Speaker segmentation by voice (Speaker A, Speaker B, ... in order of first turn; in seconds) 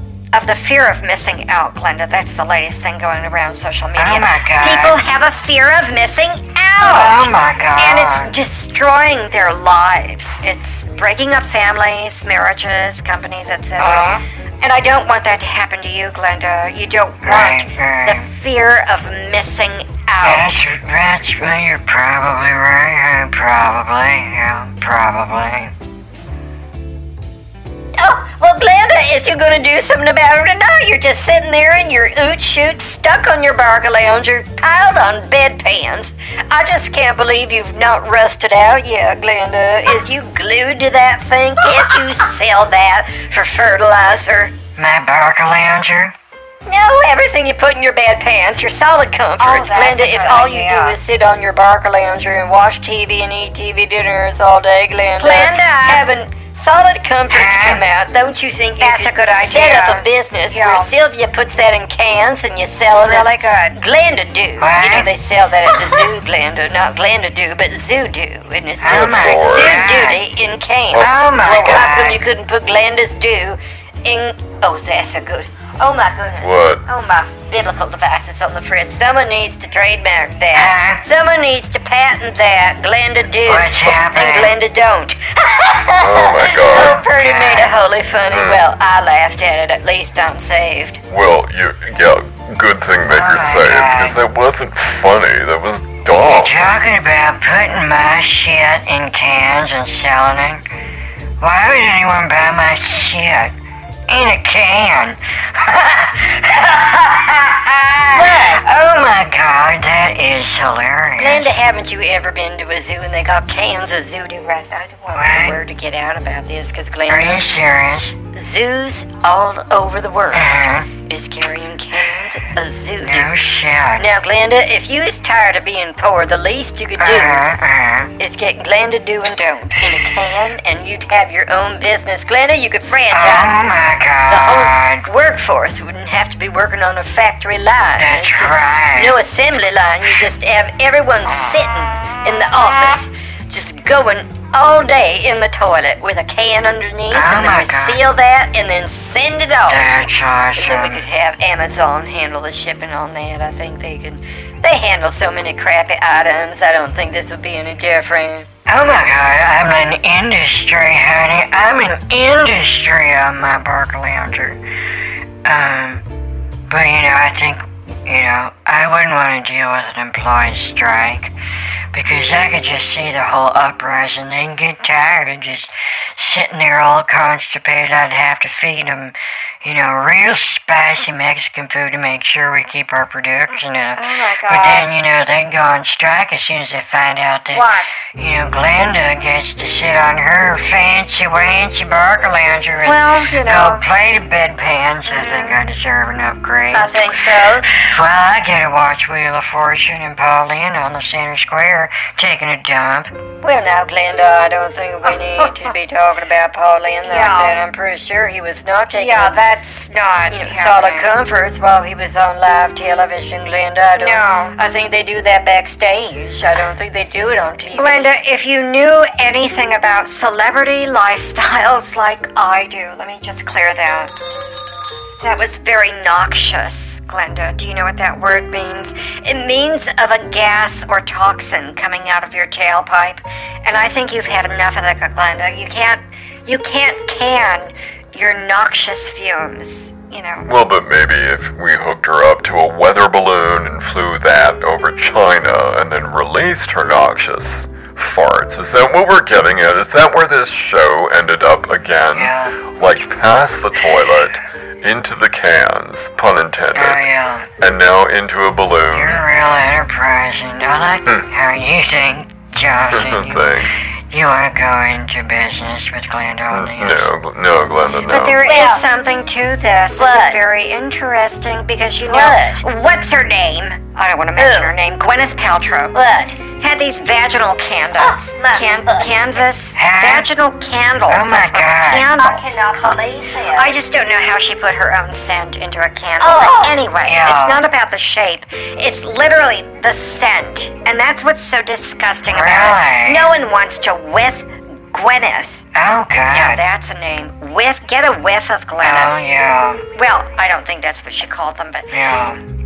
Speaker A: 0.3-20.5, 49.4-51.0, 55.2-56.0, 58.8-60.9, 63.0-63.8, 183.9-184.9, 187.5-187.9, 192.8-193.8, 195.1-195.6, 205.1-205.7, 207.0-207.6, 208.9-211.1, 214.0-214.6, 217.7-224.1, 225.2-240.5, 268.1-283.0, 283.5-295.6, 296.3-299.3, 299.9-302.0
Speaker B: 4.0-5.0, 6.8-8.3, 13.8-14.2, 17.2-18.3, 20.2-25.7, 44.8-46.1, 57.3-57.8, 64.6-65.1, 68.8-70.2, 70.9-72.2, 80.5-81.0, 83.5-84.5, 86.6-87.8, 93.1-94.2, 96.2-100.6, 101.4-103.5, 104.1-111.6, 115.1-115.6, 117.1-118.1, 120.3-120.9, 123.0-124.1, 127.0-128.1, 133.1-135.1, 138.0-139.2, 147.1-148.0, 149.7-151.0, 158.7-164.6, 165.4-166.0, 166.7-171.3, 171.9-203.1, 252.1-252.7, 256.7-257.5, 258.9-267.1, 279.8-280.3, 281.1-282.1, 287.0-287.6, 292.3-293.3, 295.7-296.6, 298.8-299.8, 301.9-302.4
Speaker C: 28.0-44.6, 46.6-91.0, 108.1-108.6, 111.2-117.5, 118.3-123.3, 124.0-127.5, 128.2-133.6, 134.3-150.1, 150.6-158.5, 196.7-197.6, 203.4-209.4, 210.3-218.1, 268.4-268.8, 270.0-270.4, 272.0-272.6, 274.4-274.7, 275.9-276.3, 278.0-279.1, 282.2-283.7, 286.2-286.9
Speaker D: 68.8-69.8, 76.4-76.8, 86.0-87.0, 88.3-88.6, 91.1-96.7, 240.4-257.1, 257.6-259.2, 262.9-263.8, 266.5-268.4